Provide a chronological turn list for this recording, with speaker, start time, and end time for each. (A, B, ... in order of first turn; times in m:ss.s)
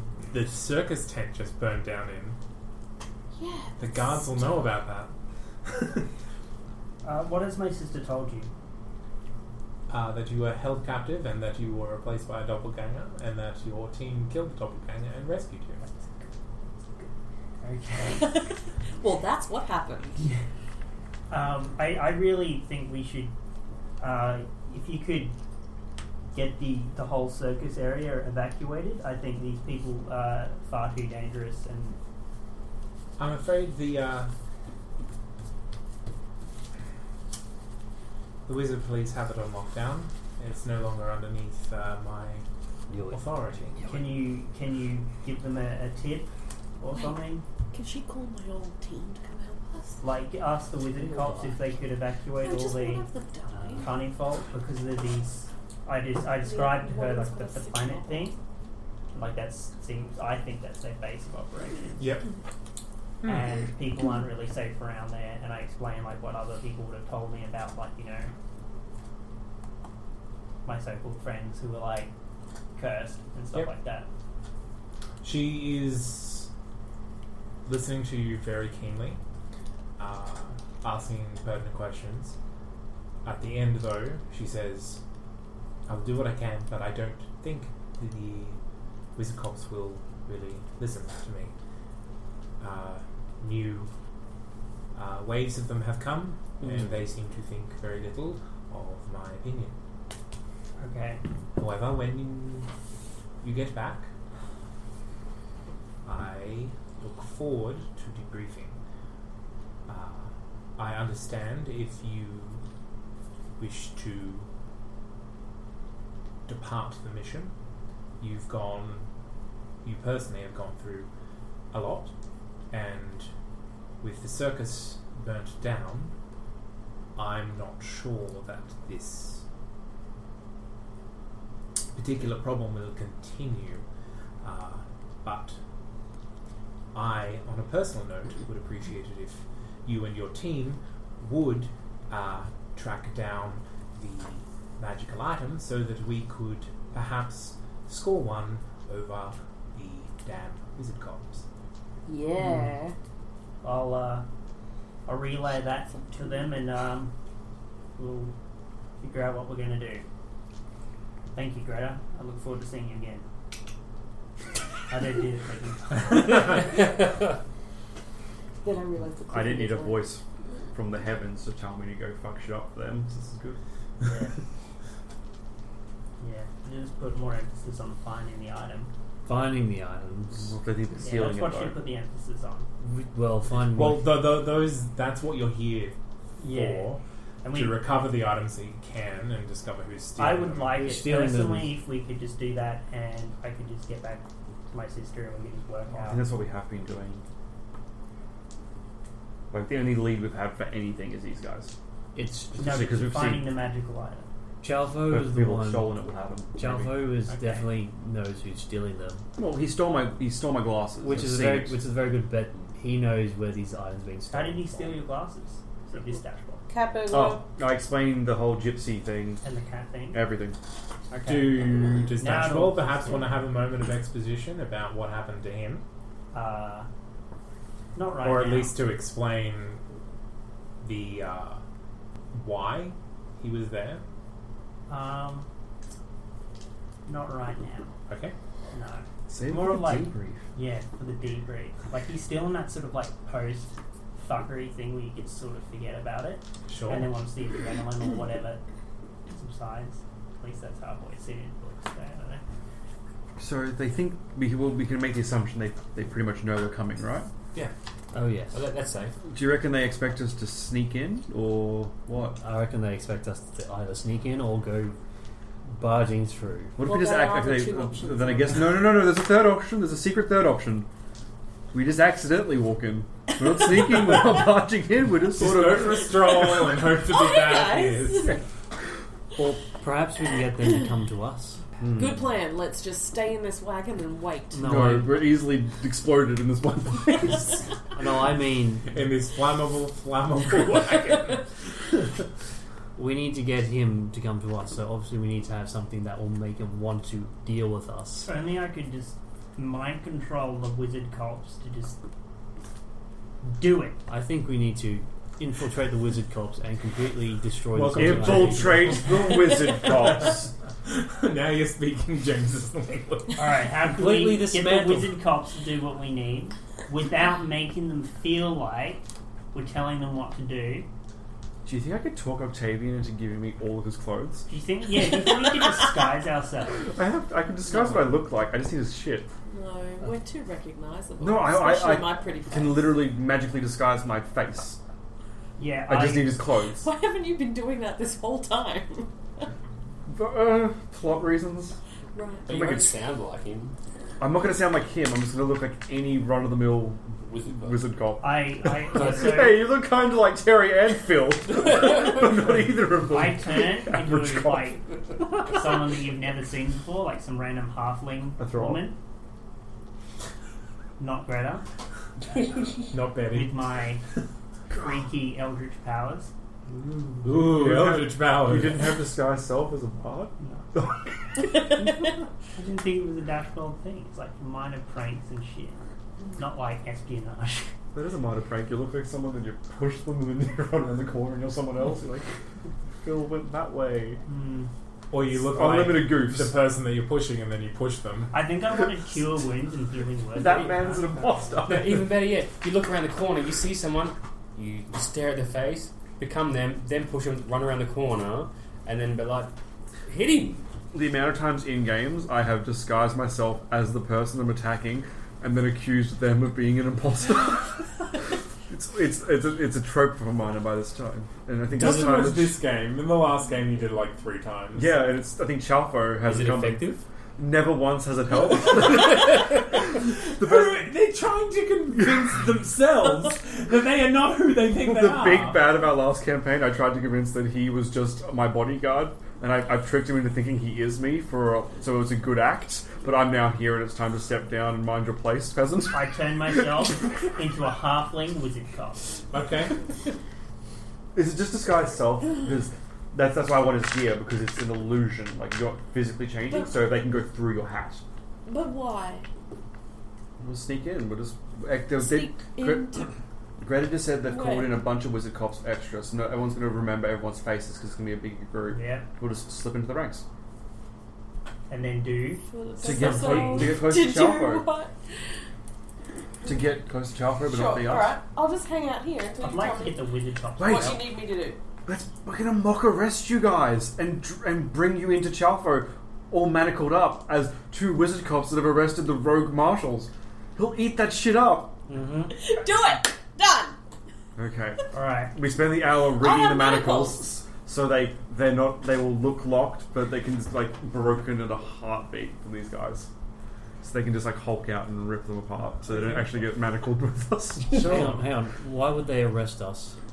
0:00.2-0:02.4 A
0:03.4-0:04.6 B
0:03.8-0:05.1 A
0:05.7-0:06.1 A
0:07.0-0:08.5 C
0:09.9-0:15.8 A
0:15.8-0:16.3 C
0:17.0-0:18.3 C
0:18.0-0:20.2 B
0:21.3-0:23.3 C
0:24.0-0:25.4 C
0:26.3-0:32.0 C
0:33.2-0:34.3 A
0:38.5-0:42.4 A
0:42.9-0:43.3 D
0:43.1-0:43.8 A
0:43.8-0:47.4 C
0:46.9-0:50.0 B
0:50.0-0:53.1 C
0:51.0-0:51.6 D
0:52.4-0:54.0 B
0:53.5-0:53.9 D
0:53.8-0:58.4 C
0:56.4-0:58.3 B
0:59.1-1:02.2 C
1:02.0-1:02.3 A
1:03.2-1:03.6 A
1:03.2-1:08.3 C
1:10.6-1:12.1 C
1:12.8-1:14.1 C
1:15.2-1:16.5 A
1:17.6-1:19.2 A
1:20.0-1:22.4 A
1:23.2-1:25.0 A
1:25.9-1:28.6 A
1:29.2-1:31.5 A
1:32.6-1:33.9 A
1:34.9-1:39.8 A
1:40.8-1:41.2 C
1:41.6-1:42.7 A
1:43.4-1:44.1 A
1:46.0-1:48.8 A
1:49.9-1:52.6 A
1:53.6-1:54.5 A
1:56.5-1:57.5 A
1:58.2-1:59.1 A
1:59.8-2:01.1 A
2:01.7-2:02.1 A
2:02.7-2:03.3 A
2:04.0-2:06.1 A
2:07.2-2:09.4 A
2:12.0-2:13.9 A
2:14.4-2:15.6 A
2:16.9-2:31.4 A
2:32.1-2:33.0 B
2:33.6-2:34.2 C
2:35.1-2:37.1 C
2:35.9-2:36.5 B
2:38.0-2:38.3 C
2:39.0-2:40.0 C
2:41.3-2:43.2 C
2:44.9-2:46.8 C
2:48.6-2:50.1 B
2:49.3-2:50.2 E
2:50.7-2:53.6 E
2:54.0-2:54.3 C
2:56.2-2:58.9 C
2:59.2-3:00.5 D
3:00.3-3:01.8 E
3:01.0-3:02.7 C
3:02.8-3:04.2 D
3:03.6-3:10.9 A
3:06.4-3:07.9 C
3:10.2-3:16.3 C
3:10.7-3:11.8 D
3:16.0-3:17.2 E
3:19.5-3:21.7 E
3:22.2-3:22.7 D
3:22.6-3:23.5 E
3:22.6-3:24.3 C
3:24.6-3:26.0 D
3:25.1-3:27.1 E
3:26.6-3:29.2 D
3:27.3-3:27.7 C
3:29.4-3:31.8 E
3:31.0-3:35.0 D
3:34.3-3:36.6 C
3:36.7-3:37.4 B
3:37.1-3:39.4 E
3:39.4-3:40.2 C
3:40.1-3:40.6 E
3:41.1-3:43.3 C
3:41.3-3:45.8 A
3:46.3-3:46.9 C
3:48.0-3:48.8 C
3:48.2-3:49.8 A
3:50.8-3:51.6 A
3:52.3-3:54.0 A
3:54.9-3:55.5 C
3:57.1-3:58.0 C
3:58.1-3:58.3 A
3:58.7-4:08.6 C
3:59.3-4:00.5 E
4:06.7-4:07.1 A
4:09.3-4:12.4 C
4:13.4-4:17.3 E
4:18.1-4:18.7 D
4:18.5-4:19.2 F
4:19.2-4:22.4 E
4:22.4-4:25.0 D
4:25.7-4:26.8 D
4:26.8-4:30.9 E
4:26.8-4:28.8 B
4:31.7-4:36.9 E
4:35.4-4:38.3 A
4:36.5-4:38.4 B
4:39.8-4:41.6 D
4:41.8-4:42.2 E
4:42.0-4:44.8 B
4:44.5-4:45.2 D
4:44.6-4:47.5 E
4:47.9-4:48.9 D
4:48.9-4:51.4 A
4:53.0-4:58.3 D
4:58.2-5:02.0 C
5:03.4-5:04.0 C
5:04.1-5:09.0 D
5:07.8-5:13.6 A
5:07.9-5:10.5 E
5:13.4-5:20.9 C
5:13.8-5:15.2 D
5:21.6-5:24.5 E
5:24.5-5:26.9 C
5:26.8-5:29.3 E
5:27.7-5:28.2 B
5:29.5-5:33.0 B
5:31.2-5:34.8 E
5:35.6-5:36.4 C
5:35.9-5:36.9 E
5:36.8-5:39.1 B
5:40.1-5:41.8 E
5:42.1-5:42.9 B
5:42.5-5:43.8 F
5:44.2-5:54.7 E
5:47.2-5:47.8 F
5:48.2-5:49.7 C
5:53.0-5:59.0 C
5:58.4-5:58.8 E
6:01.0-6:01.6 C
6:02.9-6:03.6 A
6:03.2-6:04.0 C
6:04.7-6:06.3 C
6:06.8-6:07.3 C
6:07.2-6:09.0 A
6:07.3-6:11.5 E
6:10.4-6:10.7 C
6:12.6-6:17.7 C
6:17.9-6:22.3 E
6:23.0-6:24.2 E
6:24.3-6:24.7 C
6:25.1-6:28.4 A
6:25.3-6:26.6 E
6:28.3-6:31.5 C
6:30.4-6:32.0 E
6:31.7-6:39.5 F
6:40.1-6:40.7 F
6:40.9-6:48.0 E
6:48.7-6:52.6 E
6:51.7-6:54.9 A
6:54.8-6:59.4 E
6:56.3-6:57.0 F
6:59.7-7:05.6 A
7:00.4-7:00.8 E
7:02.0-7:02.2 E
7:04.8-7:16.9 E
7:15.9-7:19.2 C
7:19.3-7:19.7 A
7:21.2-7:28.0 E
7:26.5-7:26.7 B
7:28.4-7:29.3 B
7:30.4-7:33.0 E
7:32.0-7:33.1 B
7:33.6-7:40.2 E
7:34.2-7:34.8 B
7:38.7-7:39.1 C
7:41.7-7:42.4 C
7:42.4-7:44.9 B
7:42.8-7:44.7 E
7:43.0-7:43.7 C
7:46.4-7:48.2 E
7:47.5-7:50.1 B
7:49.4-7:51.1 C
7:50.6-7:51.0 E
7:50.6-7:51.6 B
7:51.9-8:01.8 E
8:01.9-8:02.3 D
8:02.3-8:03.8 B
8:04.4-8:13.1 E
8:04.9-8:05.4 C
8:06.2-8:07.2 B
8:13.8-8:18.1 E
8:17.7-8:18.2 A
8:17.8-8:20.0 D